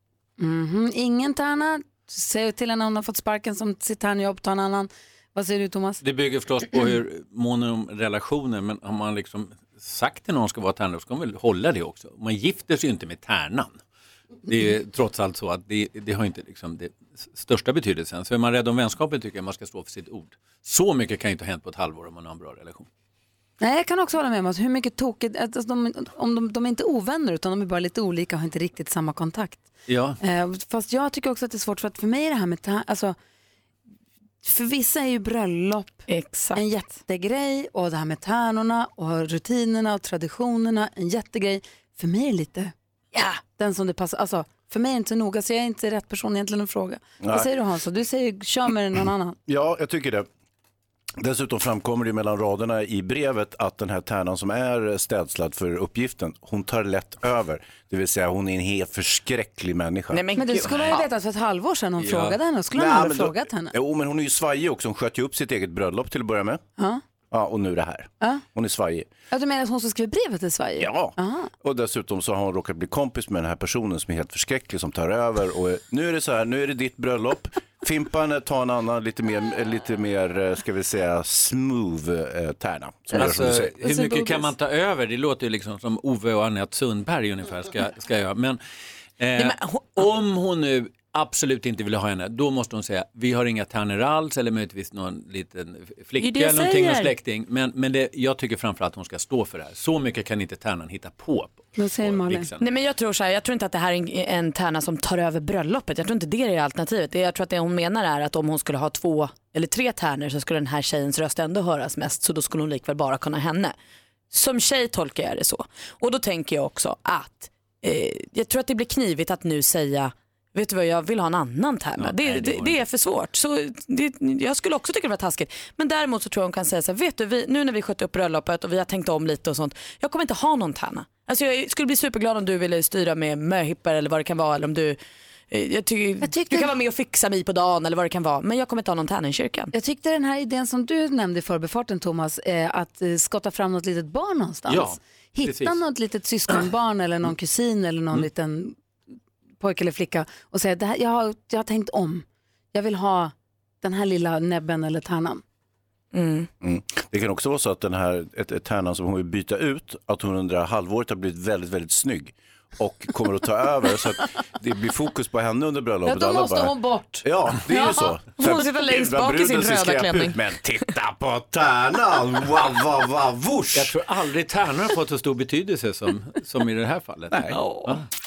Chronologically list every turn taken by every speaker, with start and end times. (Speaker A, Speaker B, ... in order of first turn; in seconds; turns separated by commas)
Speaker A: 0.4-6.0, Speaker B: 6.0-13.8, Speaker B: 14.4-22.9, Speaker A: 23.6-29.6, Speaker B: 29.9-30.2, Speaker A: 30.2-33.1, Speaker A: 34.4-36.0, Speaker C: 36.1-36.6, Speaker A: 36.5-42.7, Speaker A: 43.4-49.4, Speaker D: 47.2-47.5, Speaker D: 49.5-50.3, Speaker D: 51.2-60.2, Speaker C: 60.1-61.0, Speaker A: 60.4-63.7, Speaker B: 62.0-62.4, Speaker D: 62.7-66.6, Speaker D: 67.3-69.1, Speaker A: 69.3-71.5, Speaker D: 70.8-83.8, Speaker B: 83.1-88.6, Speaker B: 89.2-102.6, Speaker C: 89.3-90.1, Speaker C: 96.2-97.1, Speaker A: 101.7-102.5, Speaker C: 102.6-113.7, Speaker C: 114.3-135.0, Speaker B: 122.0-122.8, Speaker C: 135.5-139.7, Speaker A: 136.3-136.7, Speaker A: 139.7-148.8, Speaker B: 144.7-145.8, Speaker A: 149.6-155.4, Speaker C: 156.1-156.5, Speaker D: 156.6-173.9, Speaker A: 166.0-167.2, Speaker C: 168.4-170.4, Speaker B: 173.7-178.0